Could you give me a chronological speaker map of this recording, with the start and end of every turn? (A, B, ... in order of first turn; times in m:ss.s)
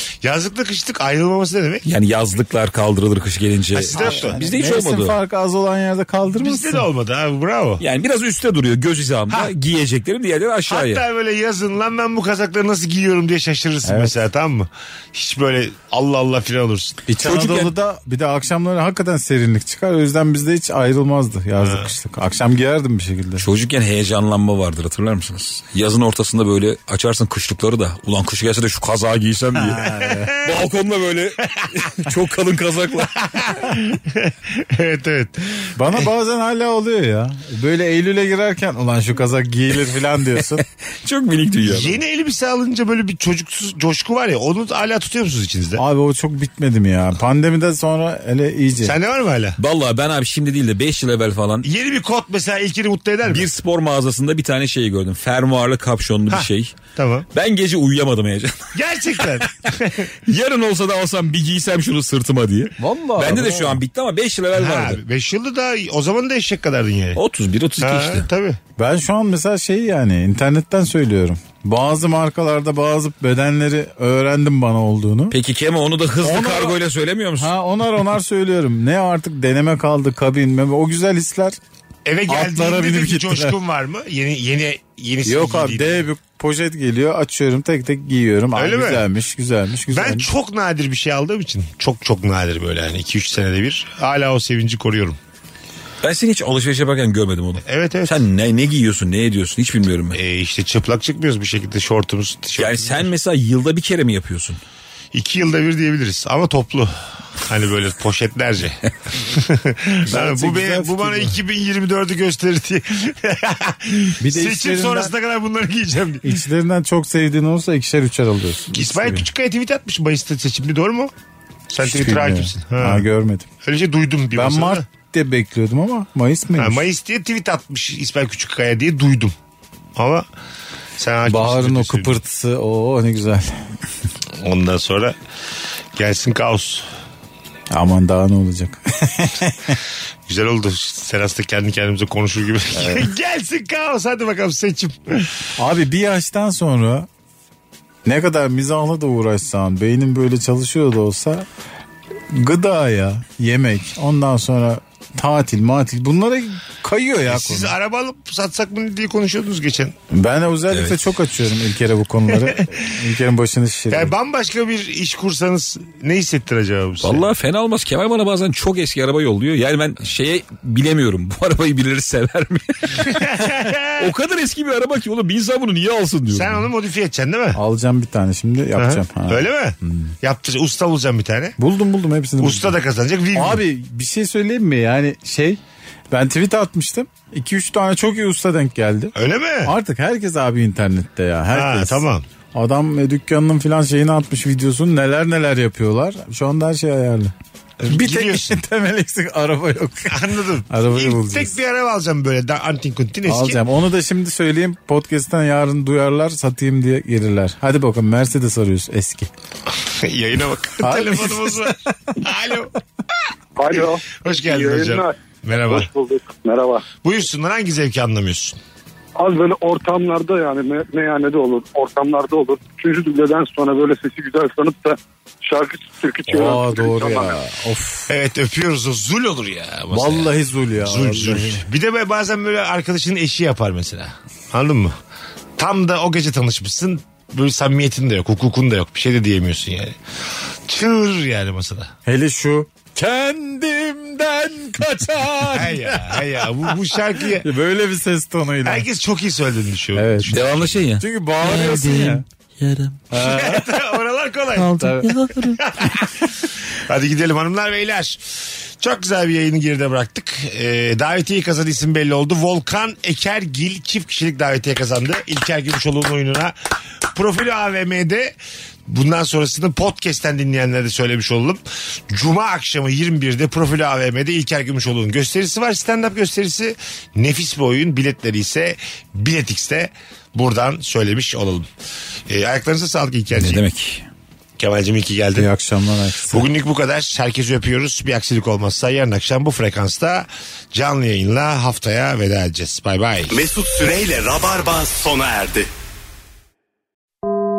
0:00.2-0:01.8 A
0:01.8-0:05.2 B
0:03.7-0:04.4 A
0:04.0-0:06.8 C
0:06.3-0:07.8 A
0:07.8-0:11.0 B
0:10.7-0:17.0 A
0:13.8-0:14.1 C
0:17.1-0:23.4 C
0:17.2-0:17.7 B
0:21.6-0:21.9 A
0:23.4-0:29.9 B
0:29.6-0:30.3 C
0:30.1-0:30.6 A
0:30.4-0:33.6 B
0:33.3-0:36.1 A
0:35.8-0:40.6 C
0:41.0-0:42.0 B
0:41.6-0:45.8 A
0:45.8-0:49.0 C
0:48.8-0:49.6 A
0:49.6-0:51.7 B
0:51.6-0:53.5 A
0:53.3-0:56.8 B
0:56.3-0:57.3 A
0:57.3-0:58.7 B
0:58.7-1:00.1 A
1:00.2-1:05.0 B
1:02.8-1:03.8 C
1:04.5-1:07.2 A
1:07.2-1:08.3 B
1:07.8-1:08.6 A
1:08.8-1:15.3 C
1:15.3-1:17.5 B
1:16.2-1:16.8 C
1:17.4-1:21.6 C
1:22.0-1:26.0 A
1:22.3-1:23.6 C
1:25.2-1:30.3 C
1:28.5-1:29.0 A
1:29.9-1:35.2 A
1:36.0-1:40.2 B
1:37.6-1:38.2 A
1:40.1-1:43.1 A
1:42.6-1:44.6 B
1:45.1-1:56.4 A
1:50.1-1:51.4 C
1:54.2-1:55.1 C
1:56.2-1:59.2 C
1:58.7-2:01.1 A
2:01.7-2:03.1 A
2:01.8-2:03.4 C
2:03.6-2:04.8 A
2:04.3-2:06.9 C
2:06.6-2:09.3 A
2:10.0-2:10.2 A
2:11.0-2:12.2 A
2:11.3-2:13.6 C
2:14.4-2:15.2 A
2:16.0-2:16.8 A
2:17.7-2:19.8 C
2:20.2-2:25.3 A
2:25.6-2:27.1 C
2:28.0-2:31.5 C
2:32.3-2:37.7 C
2:37.3-2:40.0 A
2:40.1-2:44.1 C
2:40.7-2:41.0 B
2:42.3-2:42.8 A
2:43.9-2:47.3 A
2:47.0-2:53.2 B
2:53.0-2:54.1 A
2:54.0-2:56.7 B
2:56.3-2:57.6 A
2:57.5-3:00.1 C
2:58.8-3:01.6 A
3:01.6-3:02.7 C
3:02.4-3:03.6 A
3:03.3-3:05.6 C
3:06.1-3:17.3 C
3:09.1-3:09.7 A
3:11.5-3:12.2 A
3:17.8-3:18.6 A
3:17.9-3:21.6 C
3:20.1-3:23.6 A
3:23.2-3:29.3 C
3:29.7-3:32.7 A
3:30.8-3:31.7 C
3:33.6-3:36.9 D
3:33.7-3:35.9 A
3:37.0-3:38.6 A
3:39.2-3:47.4 D
3:46.3-3:48.1 C
3:48.1-3:54.9 A
3:49.9-3:51.6 C
3:55.6-4:00.0 A
4:00.7-4:01.9 A
4:02.0-4:06.7 C
4:05.5-4:07.5 A
4:07.4-4:08.8 C
4:08.6-4:10.8 A
4:09.9-4:10.4 C
4:10.3-4:13.0 B
4:11.0-4:12.2 C
4:13.1-4:13.7 C
4:13.1-4:26.5 A
4:14.5-4:15.6 B
4:14.8-4:15.1 C
4:27.0-4:28.3 A
4:28.9-4:41.7 A
4:42.3-4:43.6 A
4:43.3-4:44.0 B
4:44.6-4:45.5 A
4:45.4-4:46.4 C
4:46.3-4:53.3 A
4:53.3-4:55.7 E